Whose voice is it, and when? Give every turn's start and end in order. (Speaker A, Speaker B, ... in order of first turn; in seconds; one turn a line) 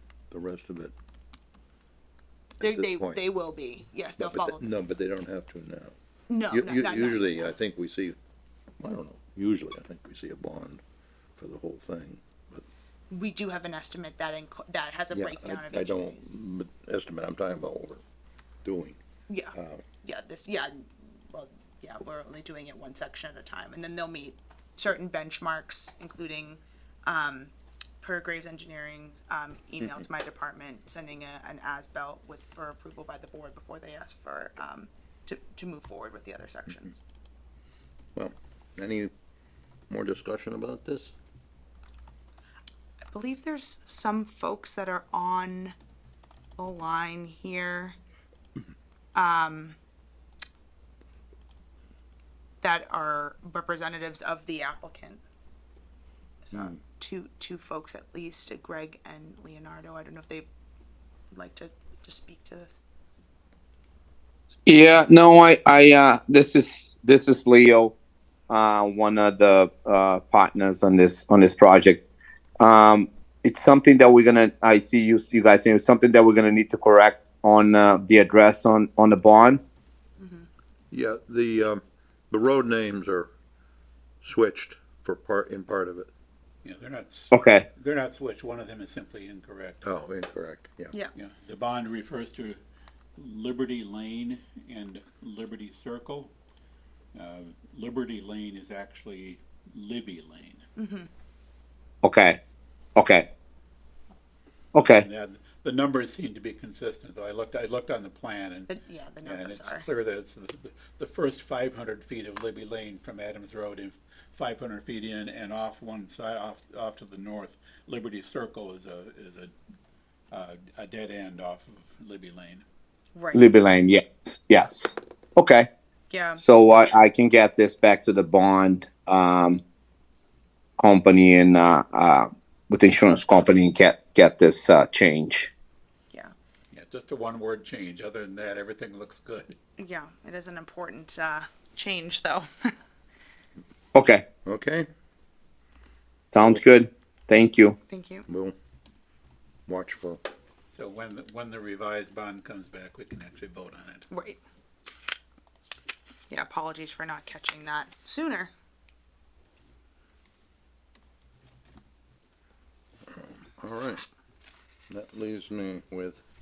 Speaker A: 0.3-0.9
Speaker A: 2.6-3.2
Speaker B: 2.6-4.7
Speaker A: 4.2-6.0
Speaker B: 6.3-7.5
Speaker A: 6.5-8.2
Speaker A: 8.8-10.8
Speaker A: 11.4-12.7
Speaker B: 13.1-16.4
Speaker A: 15.1-18.0
Speaker A: 18.6-19.0
Speaker B: 19.3-37.0
Speaker A: 19.5-19.8
Speaker A: 38.2-39.1
Speaker A: 39.9-41.1
Speaker B: 43.1-45.7
Speaker B: 46.6-48.0
Speaker B: 49.1-49.8
Speaker B: 52.6-55.2
Speaker B: 56.4-60.5
Speaker B: 61.3-62.8
Speaker C: 64.7-67.9
Speaker C: 68.5-72.0
Speaker C: 72.6-79.6
Speaker B: 80.2-80.5
Speaker A: 80.9-83.3
Speaker A: 84.2-86.1
Speaker D: 86.6-89.9
Speaker C: 87.3-87.6
Speaker A: 89.8-90.9
Speaker D: 91.2-92.6
Speaker D: 93.2-96.3
Speaker D: 97.1-100.6
Speaker B: 100.8-101.1
Speaker C: 102.0-102.4
Speaker C: 103.0-103.2
Speaker C: 104.7-105.1
Speaker D: 104.8-108.7
Speaker B: 108.7-109.9
Speaker D: 109.2-119.5
Speaker D: 120.3-122.7
Speaker B: 123.2-123.5
Speaker C: 123.3-125.7
Speaker B: 126.1-126.4
Speaker C: 126.4-129.6
Speaker C: 130.8-135.5
Speaker D: 136.7-139.5
Speaker B: 139.8-142.7
Speaker C: 143.9-144.2
Speaker A: 144.4-144.9
Speaker C: 146.3-147.8
Speaker B: 147.9-148.3
Speaker A: 148.3-148.6
Speaker A: 149.7-150.2
Speaker D: 150.7-154.1
Speaker B: 154.1-154.4
Speaker B: 156.3-158.5
Speaker A: 163.1-164.1
Speaker A: 164.9-166.2